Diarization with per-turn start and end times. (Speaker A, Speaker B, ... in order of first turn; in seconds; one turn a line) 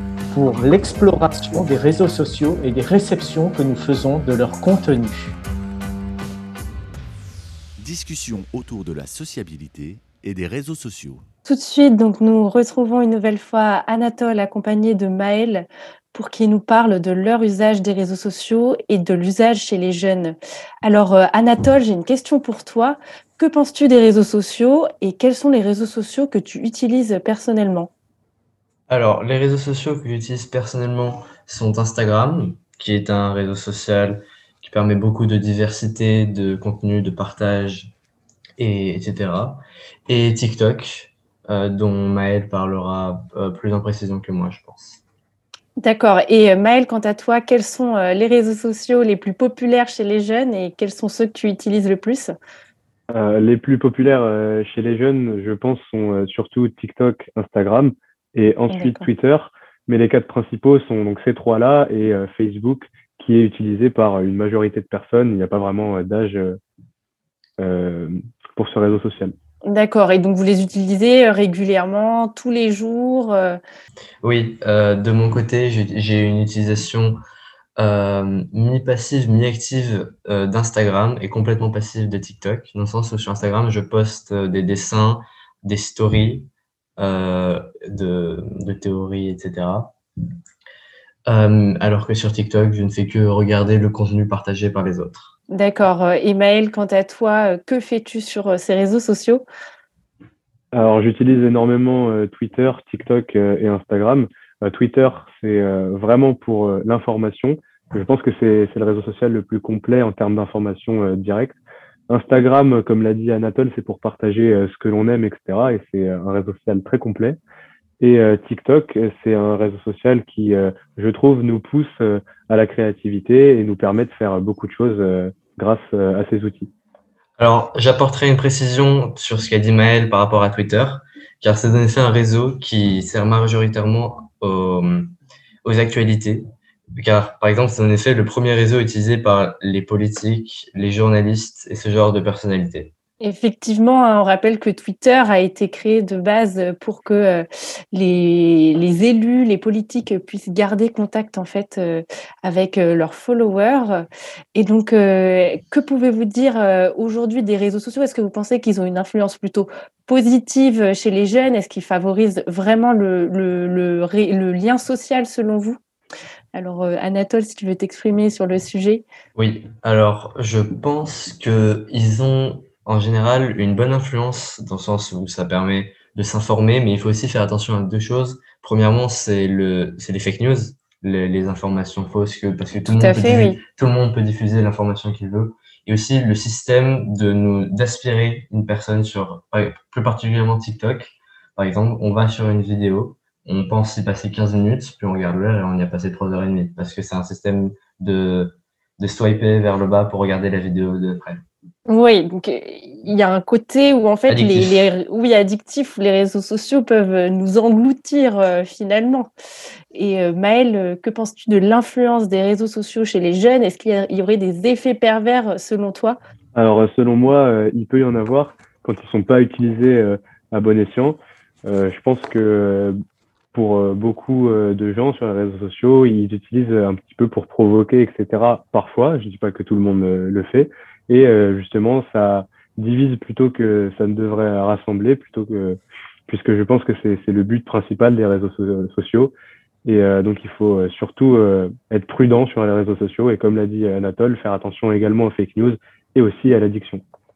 Speaker A: 0.3-5.3
Speaker B: 7.8-11.2
Speaker C: 11.4-27.9
Speaker D: 28.9-37.9
Speaker D: 38.6-45.0
Speaker C: 45.8-52.3
Speaker E: 53.1-66.6
Speaker C: 58.7-59.1
Speaker E: 67.6-69.3
Speaker C: 69.6-73.6
Speaker D: 74.2-77.2
Speaker D: 77.8-89.9
Speaker D: 91.3-95.3
Speaker C: 95.5-99.4
Speaker E: 100.7-111.5
Speaker E: 112.1-117.4
Speaker E: 118.0-126.7
Speaker D: 127.4-135.1
Speaker D: 135.6-142.9
Speaker C: 143.2-165.8
Speaker C: 166.5-169.1
Speaker D: 169.3-201.4
Speaker C: 183.0-183.6
Speaker C: 201.9-209.3
Speaker D: 204.3-204.9
Speaker C: 209.9-216.2
Speaker E: 216.5-223.0
Speaker E: 223.5-239.3
Speaker E: 239.8-247.0